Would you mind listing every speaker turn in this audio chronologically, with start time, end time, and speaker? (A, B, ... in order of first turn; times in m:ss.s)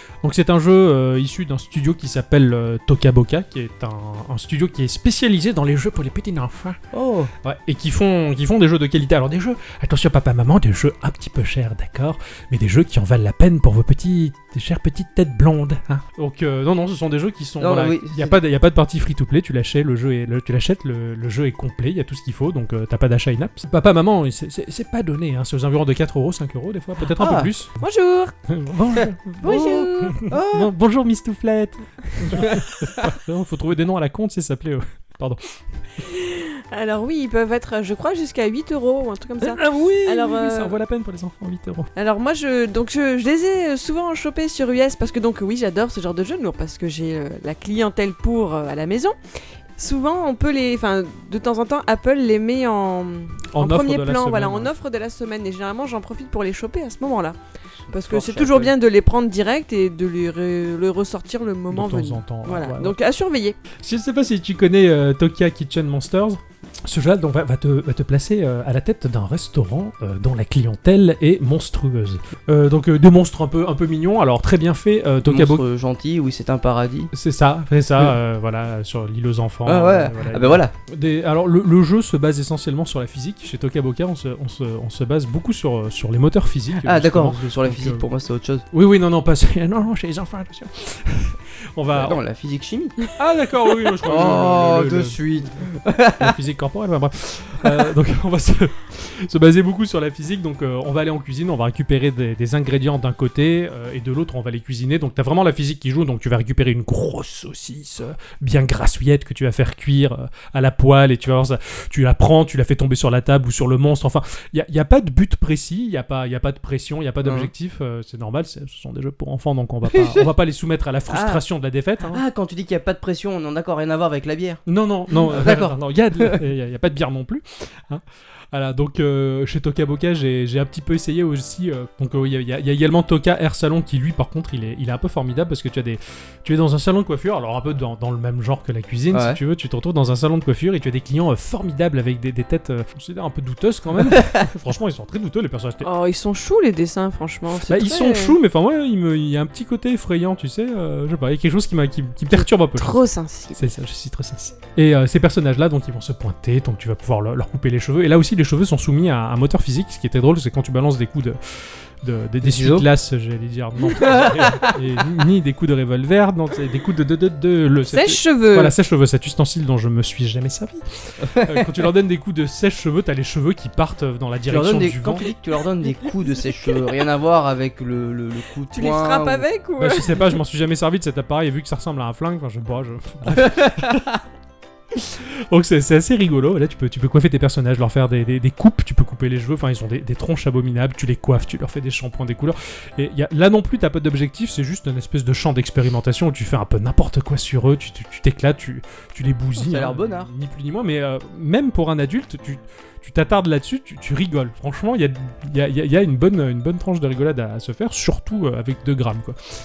0:00.2-0:06.8 A
0:06.9-0:07.3 B
0:07.4-0:27.8 A
0:17.6-0:18.4 B
0:27.0-0:27.5 B
0:27.8-0:28.3 C
0:28.5-0:35.4 A
0:29.4-0:30.7 B
0:29.4-0:30.1 C
0:36.0-0:40.8 C
0:39.4-0:41.9 A
0:42.0-0:49.2 C
0:49.8-0:57.4 C
0:53.5-0:54.7 A
0:57.9-0:58.8 B
0:57.9-1:03.6 C
1:01.7-1:03.0 A
1:03.8-1:15.6 A
1:15.2-1:17.1 B
1:17.1-1:28.1 A
1:19.7-1:20.7 B
1:26.8-1:28.6 B
1:28.7-1:32.2 A
1:31.9-1:33.0 B
1:33.2-1:35.2 A
1:34.0-1:36.3 B
1:36.2-2:02.2 A
1:57.2-1:57.5 B
1:59.9-2:00.3 B
2:01.1-2:01.4 B
2:02.0-2:06.4 B
2:04.7-2:25.9 A
2:19.1-2:19.4 B
2:25.8-2:28.4 C
2:27.7-2:33.0 A
2:32.3-2:33.7 C
2:33.6-2:41.4 A
2:42.0-2:55.3 A
2:42.4-2:42.9 B
2:44.0-2:44.8 B
2:47.9-2:48.8 C
2:51.3-2:51.6 B
2:54.5-2:59.5 B
2:58.7-3:00.4 C
2:59.8-3:04.1 A
3:03.3-3:04.2 B
3:05.0-3:29.4 A
3:19.6-3:20.3 B